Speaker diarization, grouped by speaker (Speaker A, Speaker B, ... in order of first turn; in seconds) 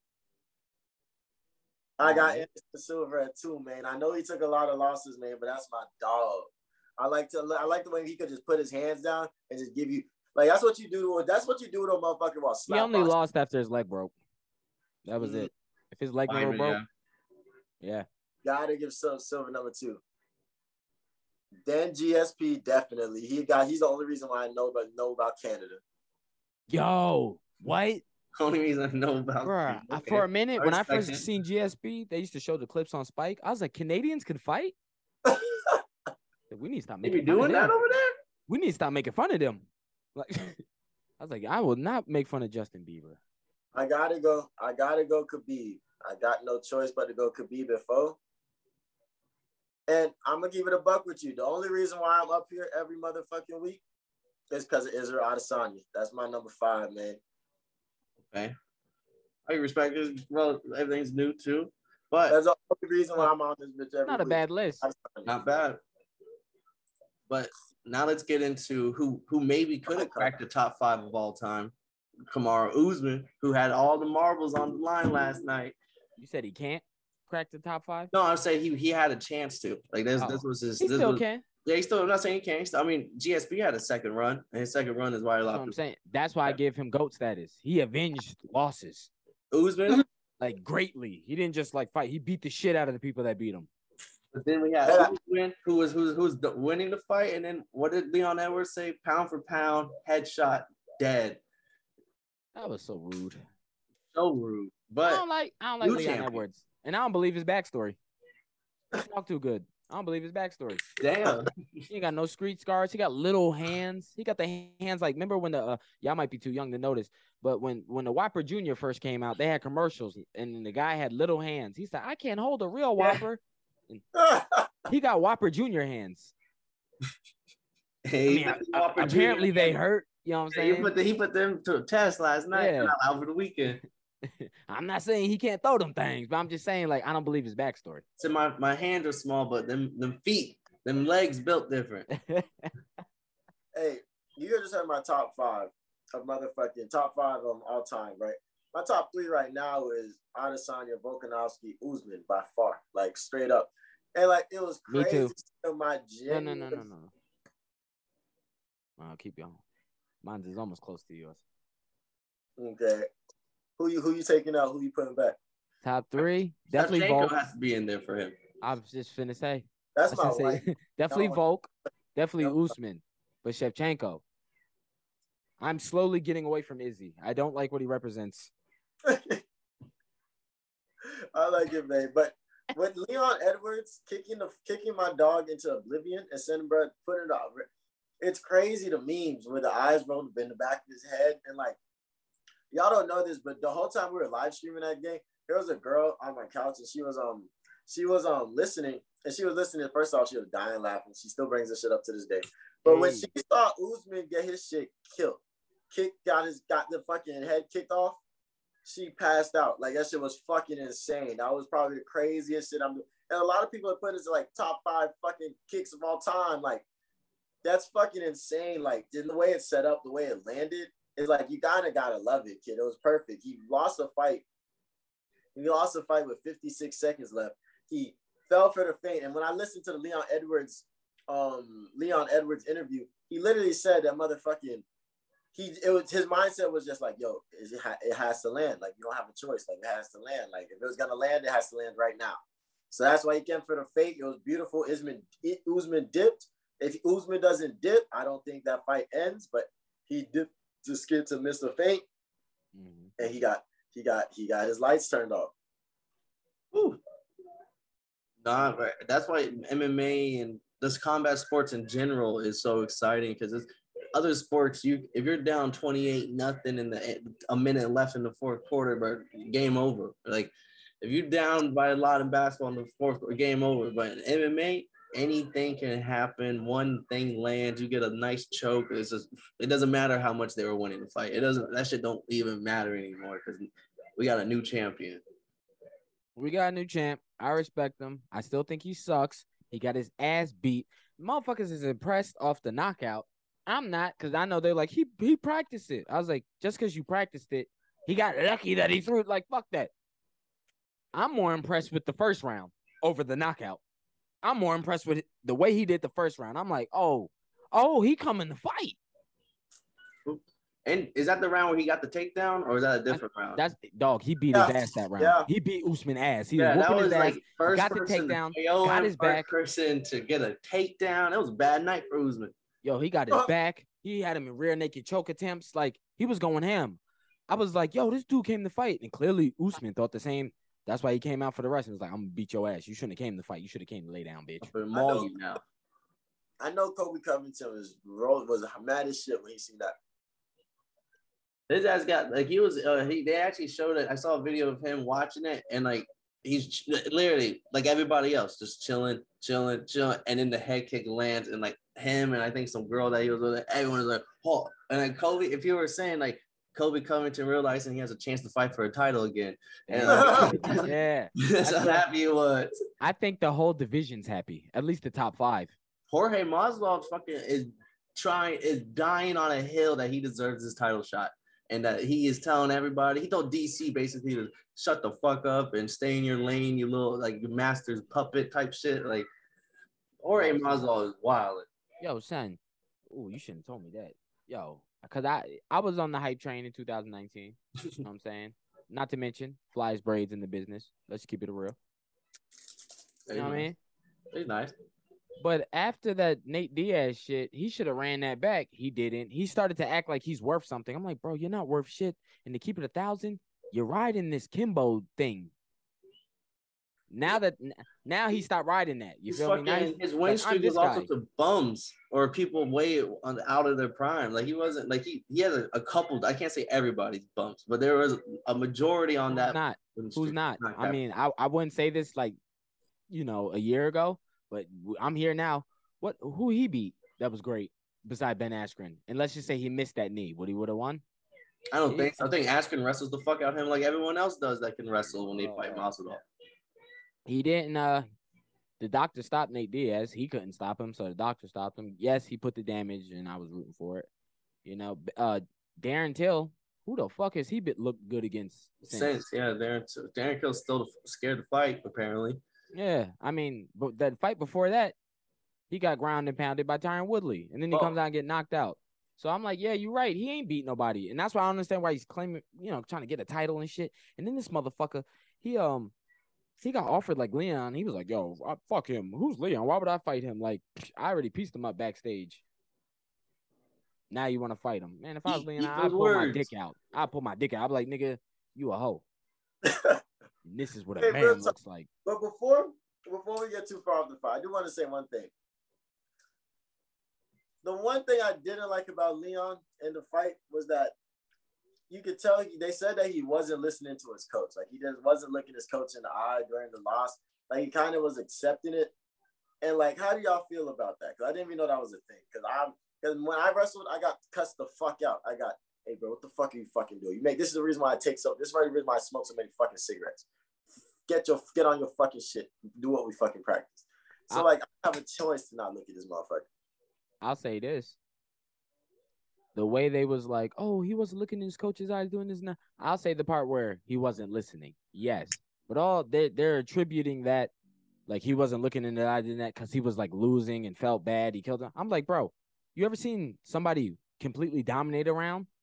Speaker A: 2.0-13.1, 15.2-15.5, 18.4-20.0, 21.6-25.8, 35.2-35.8, 43.7-48.2, 49.9-53.8, 54.5-57.2, 62.3-65.3, 69.9-70.3, 94.8-95.1, 124.1-124.8, 143.7-156.8, 162.6-163.1, 163.8-165.4, 169.9-171.4, 179.0-179.4, 181.3-187.7, 188.2-191.8, 192.7-208.2, 208.8-216.8, 217.6-224.4, 225.5-234.8, 235.5-242.4, 242.9-252.0, 253.2-255.5, 314.5-315.5, 334.9-335.3, 336.6-339.9, 360.0-360.8, 479.6-480.0, 481.0-485.3, 487.6-490.9, 491.9-498.9, 499.6-510.2, 511.1-516.5
Speaker B: 2.0-2.5, 12.7-14.1, 15.0-16.8, 17.8-18.1, 26.7-28.0, 29.4-34.7, 36.5-37.7, 38.5-40.6, 41.2-43.2, 64.0-64.9, 76.2-78.1, 80.2-81.4, 85.5-89.1, 90.4-93.7, 102.5-103.4, 105.0-108.0, 108.9-110.8, 111.9-124.0, 124.9-126.3, 128.3-130.9, 132.5-132.9, 134.4-138.0, 142.1-142.7, 154.9-155.3, 156.3-157.1, 159.0-159.6, 160.2-161.4, 165.8-167.3, 168.6-174.2, 175.6-178.5, 202.8-203.3, 252.7-253.1, 286.4-299.9, 301.1-303.8, 304.4-309.0, 313.1-319.5, 322.8-334.7, 359.9-362.0, 363.0-365.7, 380.4-380.9, 382.0-382.6, 383.1-391.8, 393.3-393.8, 395.4-405.5, 407.1-411.1, 419.3-422.4, 423.1-431.0, 431.9-432.3, 435.4-435.9, 437.3-438.1, 438.8-444.1, 444.6-449.2, 452.7-454.9, 455.7-465.9, 466.6-472.4, 474.1-479.0, 480.4-481.9, 517.2-518.0, 519.5-527.5, 528.1-535.5
Speaker C: 16.3-16.9, 28.4-31.2, 37.0-38.1, 59.5-62.4, 65.2-65.8, 67.3-71.7, 72.3-75.8, 78.1-85.8, 89.5-90.0, 94.3-101.4, 104.1-105.2, 105.8-106.4, 111.0-111.9, 128.1-129.8, 130.5-133.8, 138.2-142.1, 166.7-168.4, 256.7-257.0, 258.4-285.2, 310.2-313.6, 316.6-322.5, 334.6-335.6, 341.7-360.9, 361.4-362.7, 366.1-379.3, 380.2-381.6, 393.3-393.7, 394.3-394.7, 409.3-421.0, 431.7-436.2, 448.9-452.4, 475.3-476.5